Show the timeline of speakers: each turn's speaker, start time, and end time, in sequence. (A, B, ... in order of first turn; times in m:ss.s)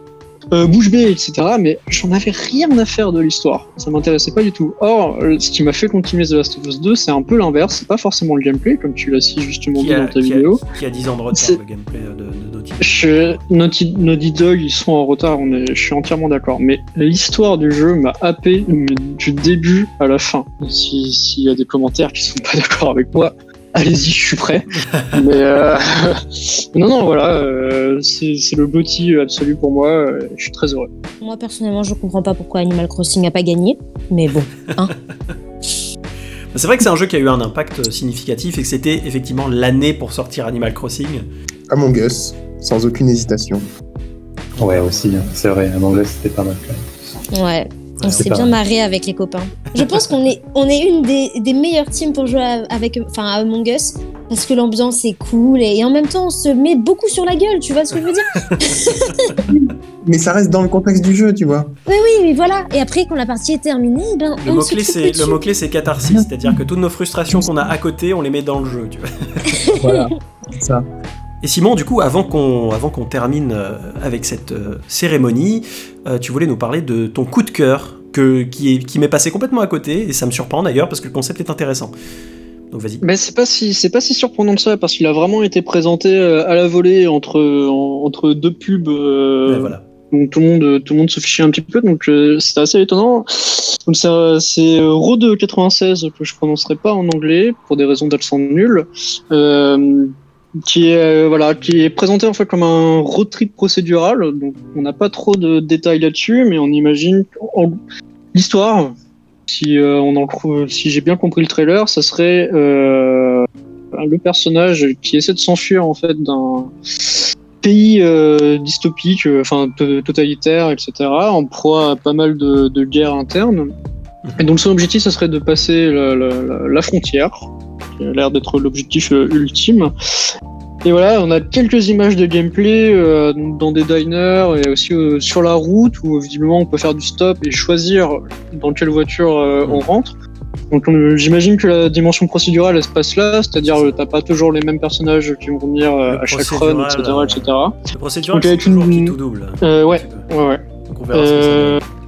0:00.5-0:10.6 A
0:09.7-0:13.4 B
0:11.3-0:11.6 A
0:12.8-0:30.9 A
0:24.7-0:25.2 B
0:31.2-0:34.9 C
0:36.5-0:41.2 B
0:41.7-0:43.7 D
0:44.6-0:45.3 B
0:44.6-0:46.8 E
0:47.3-0:59.4 C
0:48.0-0:48.3 B
0:48.2-0:48.6 E
0:58.4-0:58.9 B
0:59.5-1:01.8 D
1:01.9-1:05.4 C
1:04.4-1:09.6 B
1:09.5-1:10.0 C
1:09.7-1:10.8 D
1:11.4-1:21.9 B
1:22.7-1:23.0 B
1:23.0-1:40.1 A
1:29.5-1:29.8 B
1:40.6-1:47.8 A
1:48.3-1:48.9 A
1:49.5-2:03.7 A
2:04.4-2:07.5 A
2:08.0-2:09.9 A
2:10.8-2:20.1 A
2:20.7-2:27.7 A
2:23.6-2:24.0 B
2:26.1-2:30.3 B
2:28.3-2:30.6 A
2:30.9-2:31.8 B
2:31.1-2:31.8 A